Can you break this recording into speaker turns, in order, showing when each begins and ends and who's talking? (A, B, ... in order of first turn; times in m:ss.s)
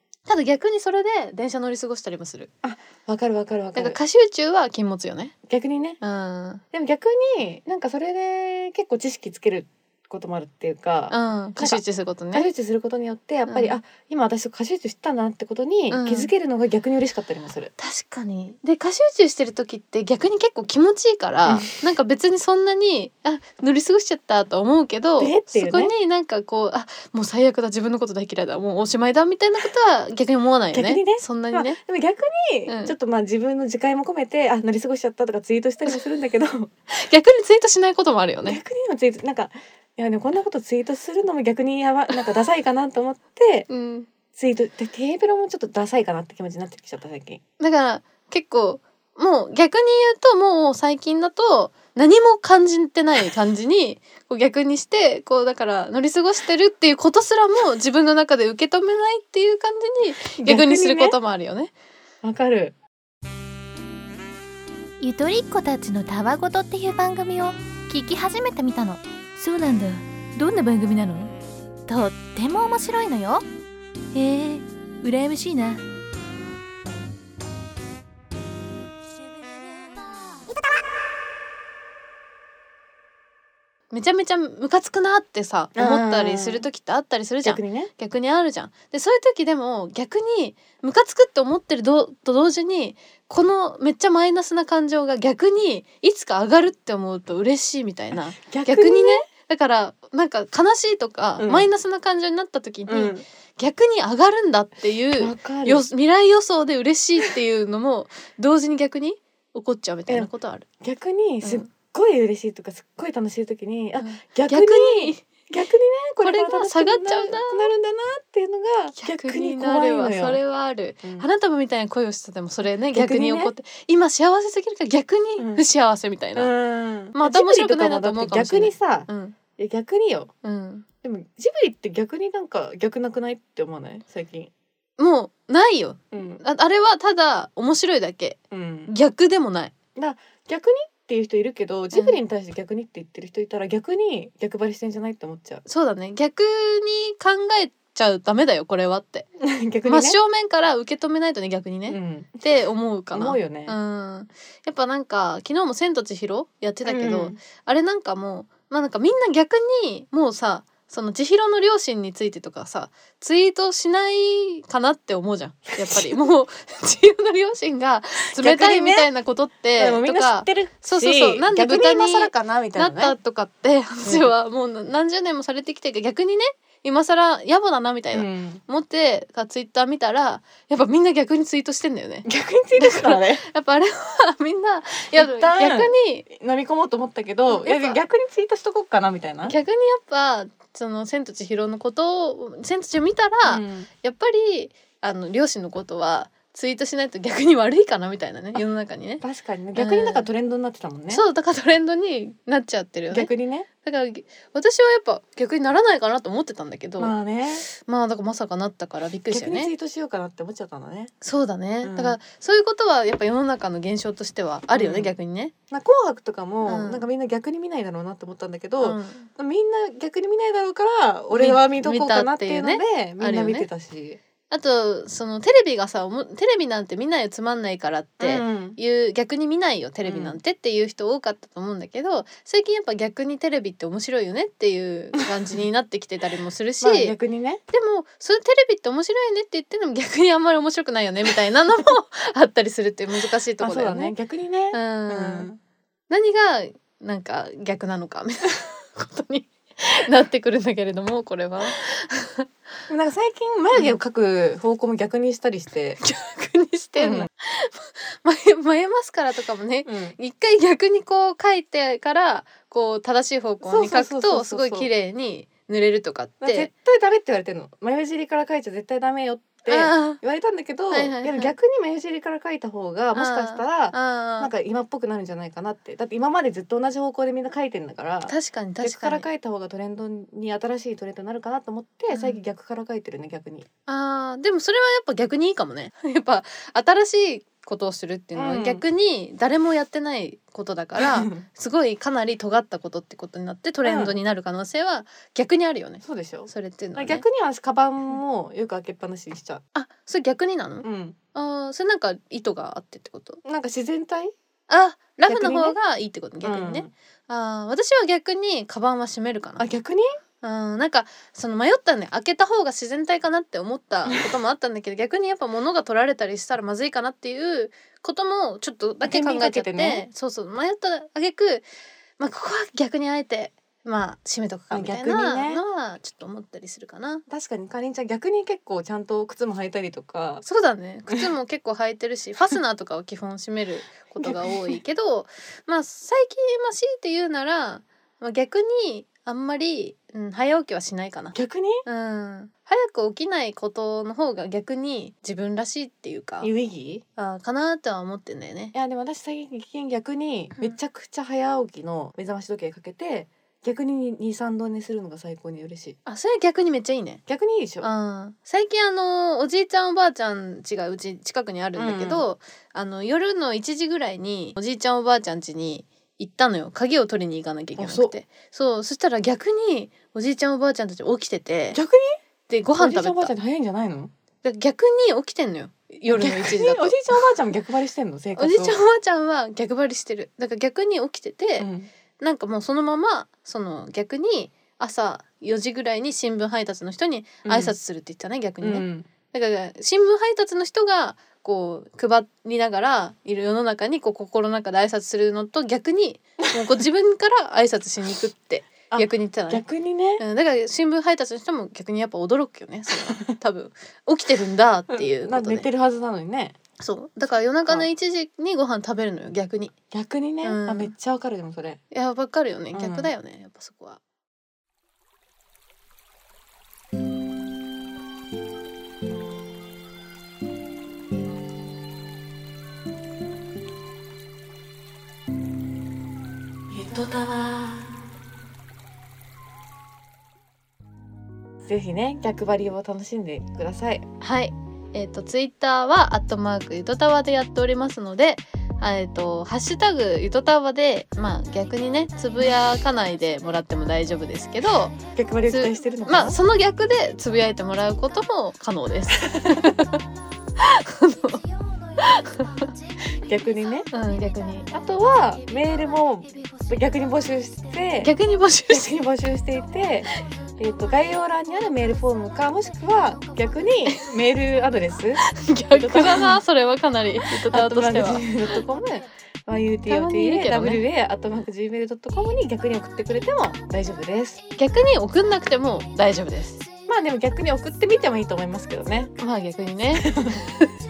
0:00.3-0:02.5 A
0:02.6-0:04.0 B
0:03.8-0:05.4 A
0:05.5-0:06.0 B
0:06.0-0:06.6 A
0:06.7-0:17.7 B
0:11.1-0:12.5 A
0:13.4-0:13.8 A
0:15.9-0:16.3 A
0:17.8-0:31.8 A
0:25.2-0:25.9 B
0:30.7-0:36.7 B
0:32.7-0:33.0 A
0:36.9-0:38.6 A
0:38.4-0:43.7 B
0:43.7-0:44.1 A
0:44.4-0:47.4 B
0:47.6-1:01.7 A
1:00.4-1:01.2 B
1:02.2-1:02.8 B
1:05.0-1:11.3 C
1:11.9-1:13.5 C
1:14.1-1:15.8 C
1:23.9-1:50.7 A
1:25.8-1:26.7 B
1:27.4-1:27.9 B
1:38.1-1:39.2 B
1:41.4-1:41.7 B
1:42.9-1:43.2 B
1:45.1-1:45.9 B
1:50.8-2:00.4 B
1:51.4-1:51.7 A
1:54.0-1:55.3 A
1:56.2-1:57.7 A
1:59.0-2:06.5 A
2:02.9-2:03.5 B
2:05.4-2:05.6 B
2:06.4-2:10.3 B
2:07.1-2:09.4 A
2:10.4-2:10.9 A
2:11.0-2:14.5 B
2:15.0-2:19.7 A
2:16.1-2:16.4 B
2:18.5-2:18.9 B
2:20.0-2:25.6 B
2:21.9-2:22.2 A
2:25.7-2:29.3 A
2:29.4-2:30.2 B
2:29.8-3:06.3 A
2:31.9-2:32.5 B
2:33.1-2:33.8 B
2:36.8-2:37.4 B
2:45.8-2:46.2 B
2:48.4-2:49.1 B
2:49.8-2:53.2 B
2:54.0-2:54.3 B
2:58.1-2:58.6 B
3:02.2-3:03.4 B
3:05.1-3:09.6 B
3:07.5-3:08.0 A
3:09.4-3:19.2 A
3:13.4-3:13.9 B
3:19.2-3:21.2 B
3:19.8-3:20.3 A
3:21.1-3:23.3 A
3:23.1-3:23.7 B
3:23.8-3:27.2 A
3:27.0-3:27.6 B
3:27.7-3:29.7 A
3:29.3-3:31.1 B
3:31.2-3:35.5 A
3:31.8-3:32.2 B
3:34.7-3:35.1 B
3:35.7-3:44.2 B
3:36.6-3:37.1 A
3:38.8-3:39.3 A
3:41.3-3:43.7 A
3:44.5-3:57.2 A
3:48.2-3:48.8 B
3:50.0-3:50.4 B
3:56.8-3:57.6 B
3:57.7-4:04.2 A
4:03.6-4:05.6 B
4:04.7-4:05.5 A
4:06.1-4:12.5 A
4:12.9-4:16.0 B
4:16.0-4:26.7 A
4:17.0-4:17.3 B
4:19.9-4:20.2 B
4:23.6-4:24.9 B
4:26.4-4:43.7 B
4:29.7-4:30.2 A
4:30.9-4:31.5 A
4:33.2-4:34.5 A
4:38.3-4:39.3 A
4:42.1-4:42.4 A
4:43.9-4:57.2 A
4:48.4-4:48.8 B
4:51.0-4:51.4 B
4:53.8-4:54.2 B
4:56.0-4:59.6 B
4:59.8-5:03.4 A
5:00.8-5:01.2 B
5:03.4-5:04.3 B
5:04.7-5:09.7 A
5:05.3-5:05.8 B
5:06.4-5:06.9 B
5:09.6-5:10.0 B
5:10.4-5:21.7 A
5:19.0-5:20.1 B
5:22.2-5:27.2 A
5:24.7-5:25.6 B
5:27.3-5:30.4 B
5:30.4-5:46.5 A
5:34.2-5:34.8 B
5:41.3-5:41.8 B
5:46.4-5:47.0 B
5:47.2-5:48.8 A
5:48.7-5:56.0 B
5:56.1-5:57.2 A
5:57.3-5:57.9 B
5:57.8-6:11.8 A
6:01.8-6:02.3 B
6:07.8-6:08.2 B
6:11.7-6:12.2 B
6:12.5-6:13.4 A
6:12.8-6:14.1 B
6:14.4-6:17.0 A
6:16.1-6:18.8 B
6:18.4-6:21.7 A
6:21.6-6:21.9 B
6:22.2-6:39.6 A
6:27.4-6:27.8 B
6:28.6-6:29.1 B
6:38.9-6:40.2 B
6:40.2-6:45.7 A
6:44.9-6:46.6 B
6:46.8-6:49.7 A
6:49.9-6:51.8 B
6:50.4-6:50.9 A
6:51.9-6:54.0 A
6:52.7-6:53.1 B
7:06.7-7:07.8 B
7:11.7-7:14.0 B
7:14.2-7:30.0 A
7:25.1-7:26.4 B
7:29.3-7:29.6 B
7:30.6-7:32.7 A
7:33.2-7:33.9 B
7:33.9-7:34.7 A
7:34.7-7:38.1 B
7:38.0-7:38.9 A
7:38.7-7:45.2 B
7:45.2-7:48.3 A
7:45.7-7:46.4 B
7:47.4-7:54.4 B
7:49.9-7:50.8 A
7:54.6-7:56.7 A
7:56.9-7:59.1 B
7:59.2-8:00.7 A
7:59.9-8:00.3 B